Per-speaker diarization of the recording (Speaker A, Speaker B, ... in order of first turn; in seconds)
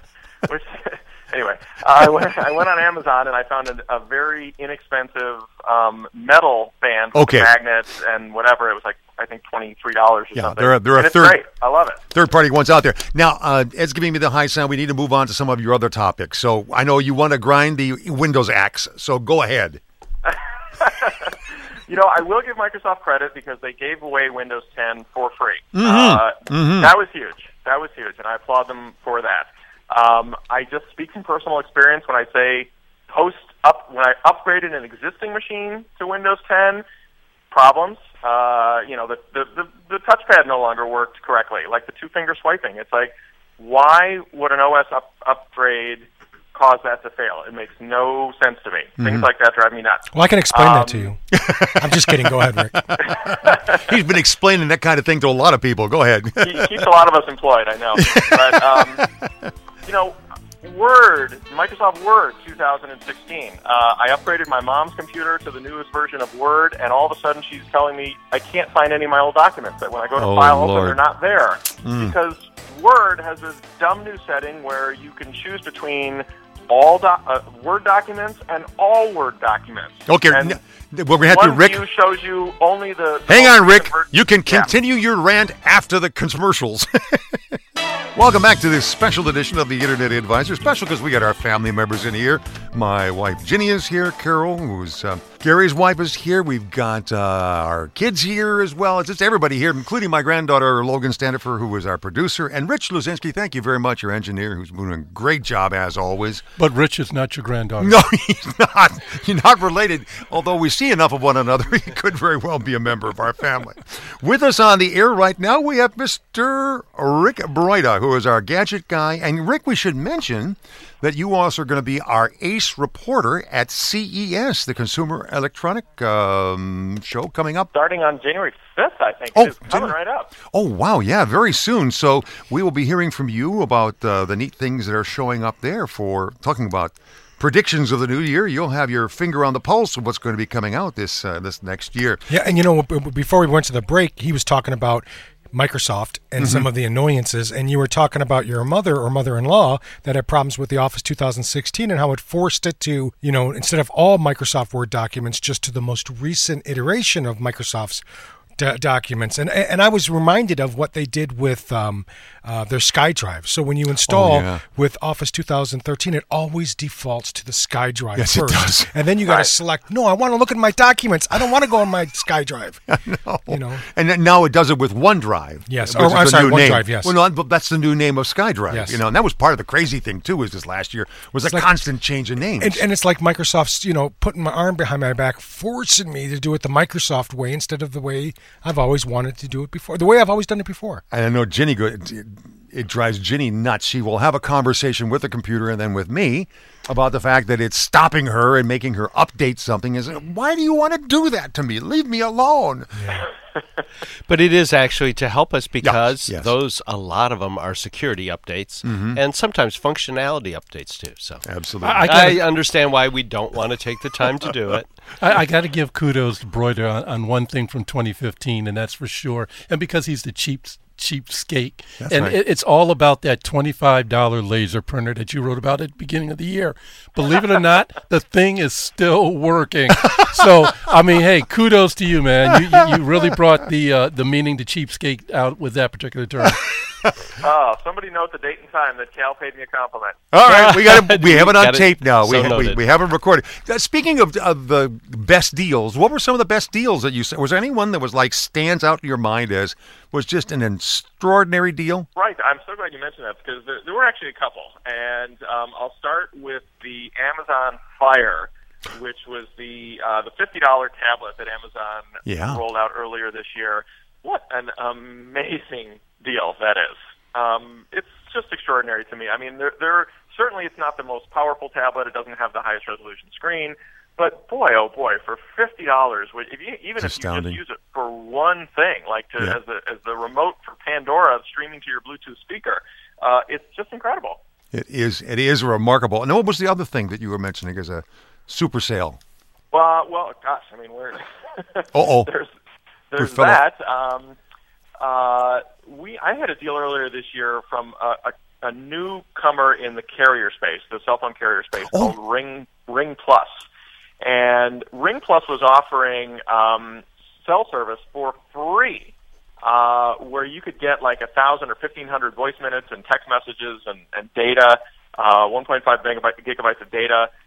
Speaker A: 0.5-12.0, 20.2-21.3, 21.9-36.8, 37.5-51.1, 53.2-53.7, 56.4-59.0, 59.9-80.6, 81.3-84.7, 127.7-130.3, 169.2-169.5, 237.4-240.2, 252.2-284.4, 289.7-292.5, 293.1-294.4, 295.0-303.6, 304.2-317.3
Speaker B: 7.1-7.5, 10.3-11.4, 12.1-19.8, 25.7-26.9, 49.0-49.3, 51.3-56.8, 58.0-58.8, 71.8-72.1, 80.1-81.8, 83.3-87.6, 88.1-106.4, 107.8-127.7, 129.3-129.9, 130.5-142.2, 146.4-146.7, 164.1-164.6, 168.2-168.9, 172.9-182.8, 191.1-203.2, 205.8-206.5, 208.8-209.2, 211.4-212.1, 222.0-222.4, 240.3-252.1, 262.2-262.6, 277.0-277.6, 284.7-289.2, 291.9-292.3, 293.2-293.6
Speaker C: 50.1-52.8, 142.3-158.0, 158.6-172.9, 173.5-173.8, 175.7-177.1, 178.7-179.0, 181.4-181.8, 182.6-191.0
Speaker D: 70.2-71.0, 204.2-214.9, 240.4-242.8
Speaker E: 106.6-108.0, 211.8-212.5, 215.2-236.8